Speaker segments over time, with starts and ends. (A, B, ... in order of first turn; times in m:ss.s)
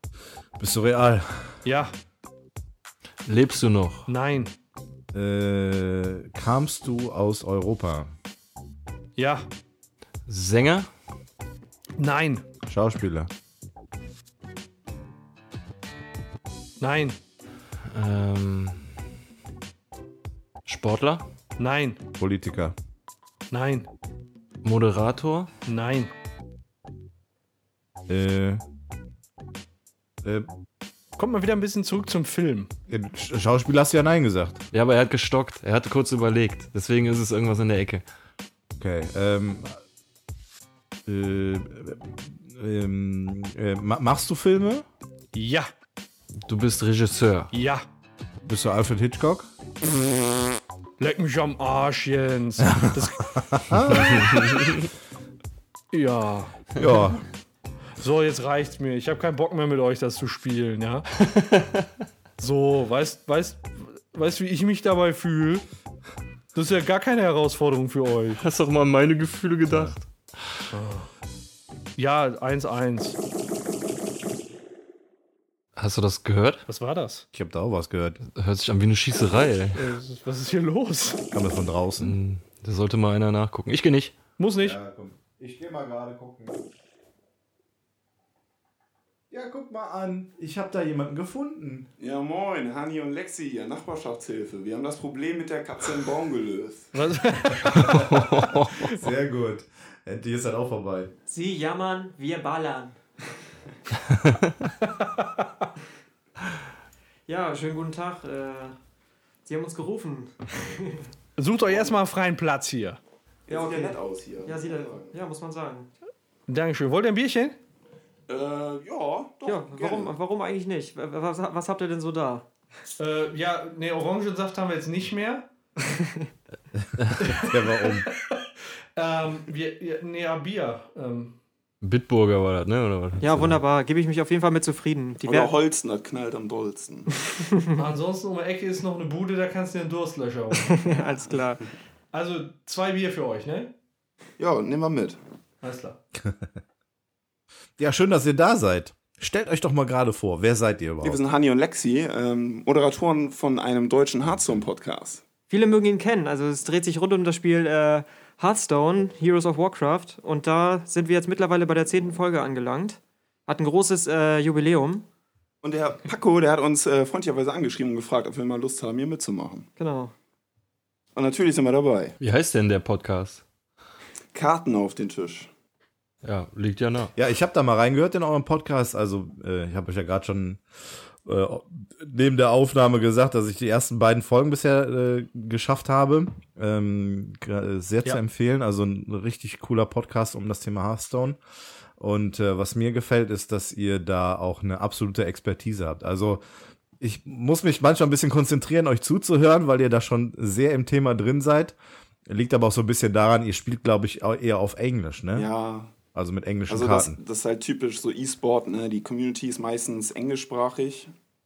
0:00.6-0:01.6 A
0:01.6-0:01.9 B
0:03.2-0:04.1 C
0:04.1-0:04.5 B
0:05.1-0:08.1 A
0:09.2-0:09.5 B
0:10.3-0:10.9 C
0:12.0-0:12.4 B
0:12.7-0:13.3 A
0:16.8-0:17.2 B
0:17.8-0:18.9 C
0:20.6-0:21.2 C
0:21.6-0:22.0 B
0:22.2-0:22.7 A
0:23.5-0:23.9 B
0:24.6-0:25.5 C
0:25.6-0:26.1 B
0:28.1-0:28.6 A
0:30.2-0:30.5 A
0:31.2-0:32.7 B
0:32.9-0:34.6 A
0:34.7-0:38.0 C
0:38.8-0:39.8 A
0:41.0-0:44.8 A
0:45.3-0:45.7 B
0:46.4-0:47.5 C
0:47.5-0:47.8 B
0:48.4-0:49.5 A
0:51.0-0:53.3 B
0:52.7-0:54.5 A
0:54.0-0:54.6 C
0:55.9-0:56.6 B
0:56.8-0:57.2 A
0:58.0-1:01.1 B
1:01.2-1:01.9 C
1:02.4-1:05.6 B
1:06.5-1:08.4 B
1:08.4-1:10.0 C
1:10.7-1:11.1 B
1:12.0-1:13.2 B
1:15.8-1:16.6 C
1:16.7-1:17.2 B
1:17.3-1:18.2 A
1:18.2-1:19.8 C
1:19.7-1:21.2 B
1:21.3-1:22.2 A
1:22.0-1:24.2 C
1:24.4-1:24.8 B
1:24.6-1:26.6 A
1:29.3-1:31.9 A
1:32.0-1:36.9 D
1:36.9-1:38.1 B
1:37.7-1:38.9 C
1:38.8-1:41.1 A
1:41.3-1:43.0 E
1:44.8-1:45.7 B
1:47.3-1:48.8 E
1:49.4-1:51.0 E
1:51.4-1:53.0 B
1:51.7-1:51.9 D
1:53.5-1:55.2 D
1:53.5-1:55.9 E
1:56.5-1:57.6 B
1:58.3-2:00.1 D
1:59.4-2:02.4 E
2:03.0-2:05.5 B
2:06.8-2:08.1 A
2:07.0-2:07.3 C
2:07.2-2:11.4 B
2:11.8-2:13.6 C
2:13.2-2:15.5 E
2:15.2-2:17.1 D
2:17.8-2:20.8 B
2:20.6-2:21.6 E
2:22.1-2:23.7 B
2:24.4-2:25.2 D
2:25.6-2:26.0 B
2:26.2-2:26.5 A
2:27.8-2:31.2 A
2:31.0-2:35.2 D
2:35.5-2:45.0 E
2:45.6-2:49.7 D
2:49.8-2:50.1 E
2:51.1-2:52.2 D
2:52.2-2:53.4 C
2:54.3-2:55.5 D
2:56.2-2:57.1 C
2:57.2-3:00.6 A
3:01.2-3:11.4 A
3:12.0-3:16.4 A
3:17.0-3:21.8 A
3:22.3-3:25.5 A
3:25.3-3:25.9 D
3:26.1-3:27.2 A
3:26.7-3:31.1 D